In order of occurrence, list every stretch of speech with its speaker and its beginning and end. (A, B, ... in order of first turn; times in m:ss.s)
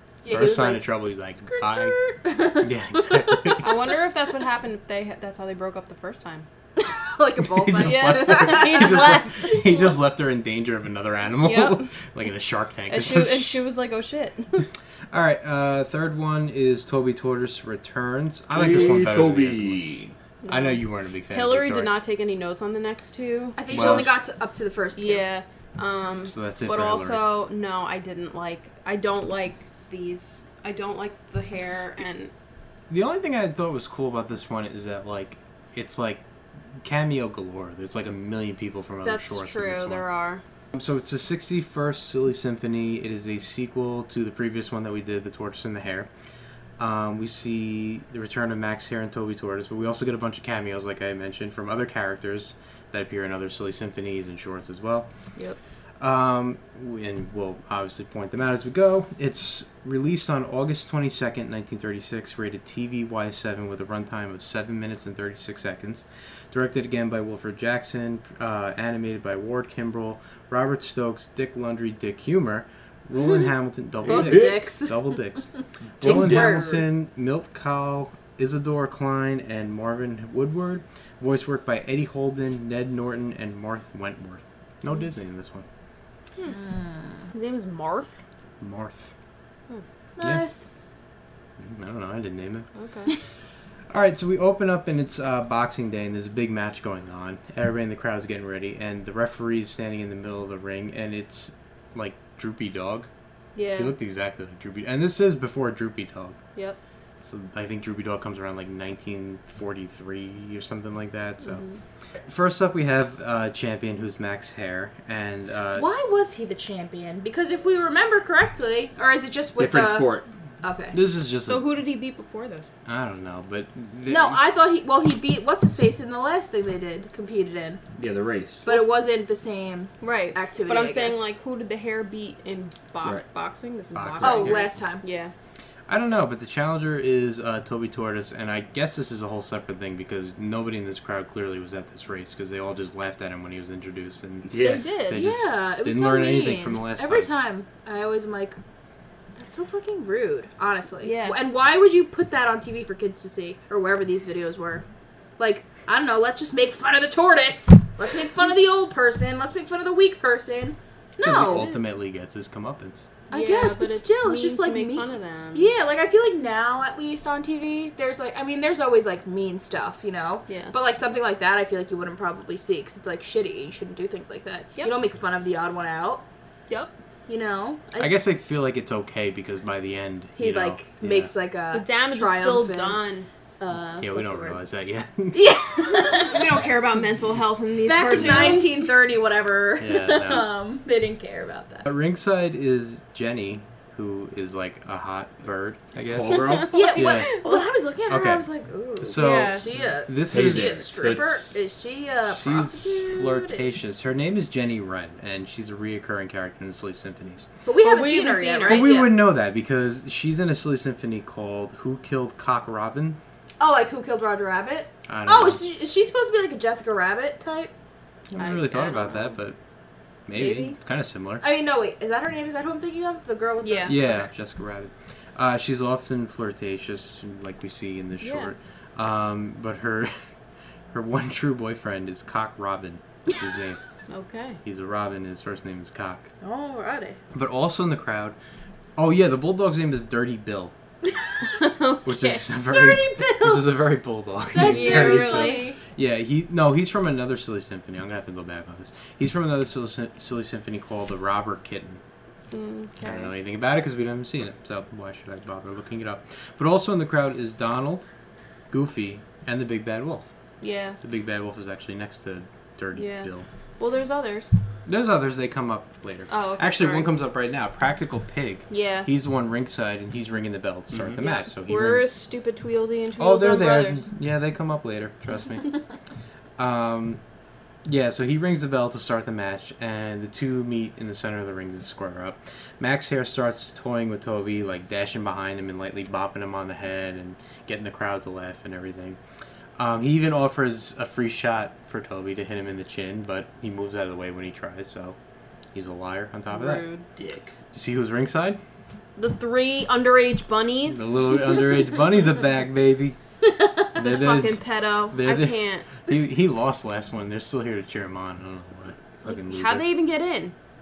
0:00.2-0:00.9 A
0:00.2-0:02.0 B
0:01.5-0:03.6 A
0:02.6-0:03.6 B
0:03.6-0:06.4 C
0:06.8-0:09.8 A
0:07.4-0:13.6 B
0:07.8-0:09.8 C
0:11.4-0:11.9 C
0:12.9-0:14.7 C
0:15.1-0:19.9 B
0:18.5-0:20.1 D
0:20.4-0:24.1 C
0:20.5-0:22.0 B
0:23.6-0:25.3 A
0:23.7-0:24.2 B
0:25.0-0:32.3 C
0:26.2-0:27.3 B
0:32.9-0:36.2 B
0:36.8-0:40.0 B
0:39.0-0:40.4 C
0:40.7-0:46.1 B
0:46.8-0:55.1 B
0:56.0-1:15.5 B
1:14.0-1:14.6 D
1:14.0-1:15.2 A
1:16.0-1:25.6 B
1:16.0-1:16.8 A
1:16.0-1:16.6 D
1:26.5-1:27.2 A
1:27.3-1:28.2 C
1:28.6-1:29.1 B
1:30.2-1:30.6 A
1:31.6-1:32.7 B
1:32.8-1:33.1 C
1:33.9-1:43.1 B
1:43.5-1:43.9 C
1:43.8-1:46.4 B
1:47.2-1:51.6 B
1:51.4-1:51.8 C
1:52.2-1:55.9 B
1:55.7-2:01.0 A
1:59.6-2:00.2 D
2:00.9-2:01.7 B
2:01.4-2:02.7 C
2:02.8-2:04.4 B
2:04.0-2:07.8 A
2:08.0-2:08.6 D
2:08.6-2:11.3 A
2:10.0-2:15.3 C
2:13.9-2:14.7 B
2:14.2-2:15.0 A
2:15.9-2:27.3 B
2:24.5-2:24.8 D
2:24.6-2:25.2 C
2:25.1-2:28.6 A
2:29.4-2:34.8 A
2:31.0-2:31.4 C
2:35.4-2:41.7 A
2:41.2-2:43.1 B
2:41.3-2:41.8 C
2:43.3-2:56.2 A
2:43.3-2:45.7 C
2:50.5-2:50.7 C
2:57.3-2:58.2 A
2:58.0-3:01.3 B
3:00.4-3:03.0 A
3:01.7-3:03.3 C
3:03.6-3:04.6 A
3:04.0-3:05.5 B
3:05.3-3:06.6 A
3:05.9-3:08.8 C
3:07.8-3:11.9 A
3:08.1-3:08.6 B
3:09.8-3:10.5 B
3:11.8-3:17.4 B
3:16.1-3:16.8 D
3:16.3-3:17.6 C
3:16.7-3:23.6 A
3:18.0-3:18.4 B
3:19.0-3:20.9 B
3:19.2-3:19.7 C
3:19.7-3:21.4 D
3:22.3-3:27.5 B
3:27.6-3:29.2 A
3:27.8-3:29.0 C
3:28.7-3:33.2 B
3:33.6-3:37.7 A
3:35.1-3:35.6 B
3:38.3-3:39.6 B
3:38.4-3:39.3 C
3:40.3-3:41.4 B
3:40.3-3:40.7 A
3:41.4-3:44.2 A
3:43.6-3:44.0 C
3:43.8-3:50.1 B
3:48.2-3:48.5 C
3:50.9-3:53.8 B
3:54.1-3:54.6 C
3:54.6-3:56.3 B
3:56.4-3:57.2 A
3:57.3-3:58.4 B
3:59.0-4:00.7 B
4:01.6-4:02.4 C
4:02.0-4:12.0 B
4:02.5-4:03.8 A
4:04.5-4:05.8 A
4:04.5-4:05.7 C
4:12.5-4:13.3 C
4:13.0-4:18.0 B
4:18.7-4:20.3 B
4:20.6-4:21.0 C
4:21.0-4:23.4 B
4:22.9-4:24.5 C
4:24.8-4:32.1 B
4:26.3-4:27.1 C
4:28.7-4:29.1 C
4:30.9-4:31.2 D
4:31.2-4:34.1 C
4:33.2-4:35.7 B
4:36.6-4:37.2 B
4:37.8-4:49.2 B
4:49.8-4:55.2 B
4:55.7-4:56.8 B
4:56.5-4:57.0 C
4:57.2-4:57.5 D
4:57.7-4:58.6 B
4:59.2-5:01.1 C
5:00.9-5:03.2 B
5:03.9-5:09.9 B
5:04.0-5:05.9 C
5:09.2-5:10.5 C